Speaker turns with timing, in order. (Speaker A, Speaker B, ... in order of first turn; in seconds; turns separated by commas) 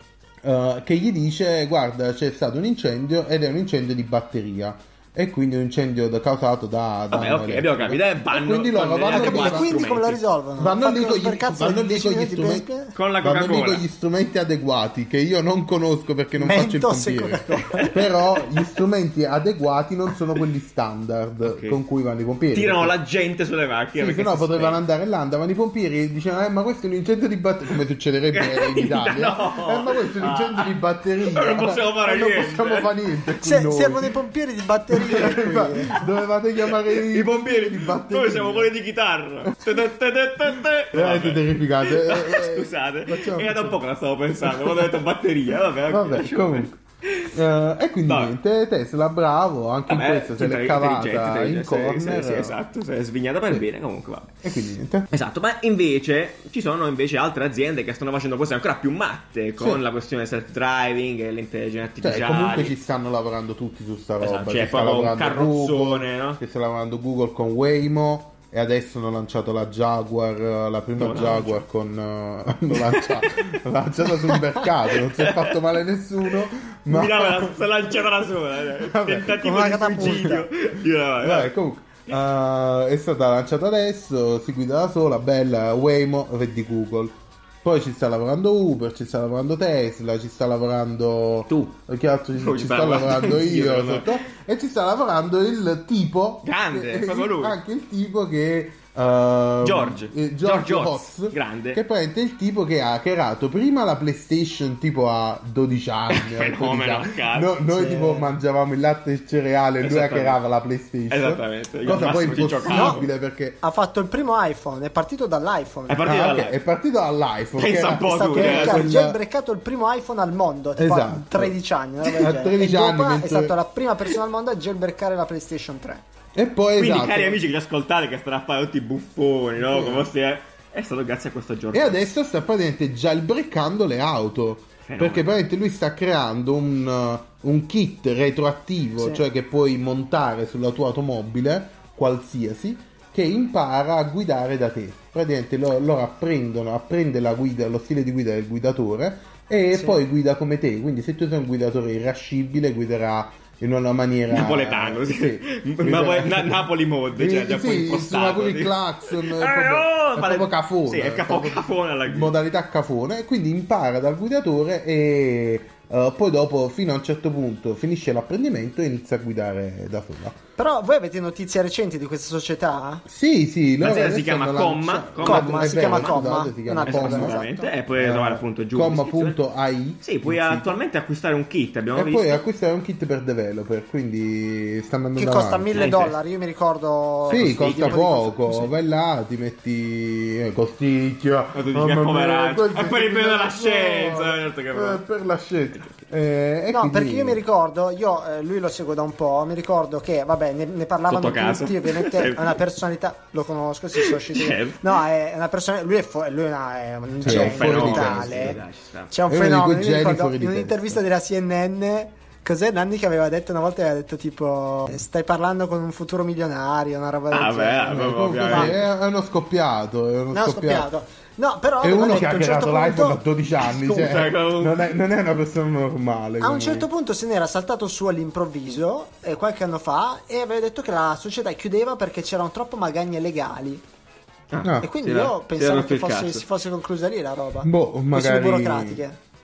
Speaker A: 0.4-9.8, Speaker B: 7.1-10.2, Speaker C: 9.1-12.9, Speaker A: 10.6-12.7, Speaker B: 12.9-13.8, Speaker A: 13.2-22.9, Speaker C: 16.4-17.9, Speaker B: 21.4-21.8, Speaker B: 22.5-24.8, Speaker A: 24.0-34.1, Speaker B: 28.3-32.9, Speaker C: 33.4-36.0, Speaker A: 34.9-38.7, Speaker B: 36.7-47.3, Speaker A: 40.9-43.8, Speaker A: 44.5-44.9, Speaker A: 45.9-46.8, Speaker A: 47.3-52.5, Speaker B: 48.1-48.4, Speaker B: 49.9-54.5, Speaker A: 54.4-55.1, Speaker B: 55.1-62.8, Speaker A: 59.6-59.8, Speaker A: 62.0-77.6, Speaker B: 64.2-66.4, Speaker B: 71.0-71.6, Speaker B: 72.7-73.3, Speaker B: 75.1-75.6, Speaker B: 76.9-81.5, Speaker A: 78.8-79.4, Speaker C: 79.3-80.5, Speaker A: 80.0-80.4, Speaker A: 81.2-113.6, Speaker B: 91.5-91.8, Speaker B: 92.4-94.2, Speaker B: 96.4-97.6, Speaker B: 99.6-101.8, Speaker B: 106.1-107.7, Speaker C: 107.7-108.3, Speaker B: 109.8-110.4, Speaker B: 111.1-113.1, Speaker C: 112.7-113.0, Speaker C: 113.6-116.2, Speaker B: 115.9-116.6, Speaker A: 116.0-119.2, Speaker B: 117.5-118.9, Speaker C: 118.0-126.0, Speaker A: 120.8-123.5, Speaker A: 126.3-127.4, Speaker B: 126.8-132.1, Speaker A: 129.6-130.1, Speaker A: 131.7-156.6, Speaker B: 134.8-135.3, Speaker B: 154.3-162.3, Speaker A: 157.1-170.4, Speaker C: 170.6-173.0, Speaker A: 173.1-177.4, Speaker B: 173.8-176.2, Speaker C: 175.2-177.7, Speaker B: 176.8-179.4, Speaker A: 177.9-180.8, Speaker B: 180.0-182.4, Speaker A: 181.9-186.0, Speaker C: 185.2-188.7, Speaker B: 185.7-186.1, Speaker B: 187.3-188.1, Speaker A: 187.3-197.4, Speaker B: 191.5-195.0, Speaker C: 196.7-208.6, Speaker B: 201.1-202.6, Speaker B: 204.0-204.8, Speaker A: 207.2-208.6, Speaker B: 207.2-209.1, Speaker C: 209.1-218.7, Speaker A: 209.3-211.0, Speaker B: 217.3-218.8, Speaker A: 217.9-220.9, Speaker C: 220.3-223.2, Speaker A: 221.8-226.9, Speaker B: 223.6-224.8, Speaker C: 226.4-233.8, Speaker B: 234.5-236.4, Speaker A: 234.6-234.9, Speaker C: 234.8-239.2, Speaker A: 237.6-239.0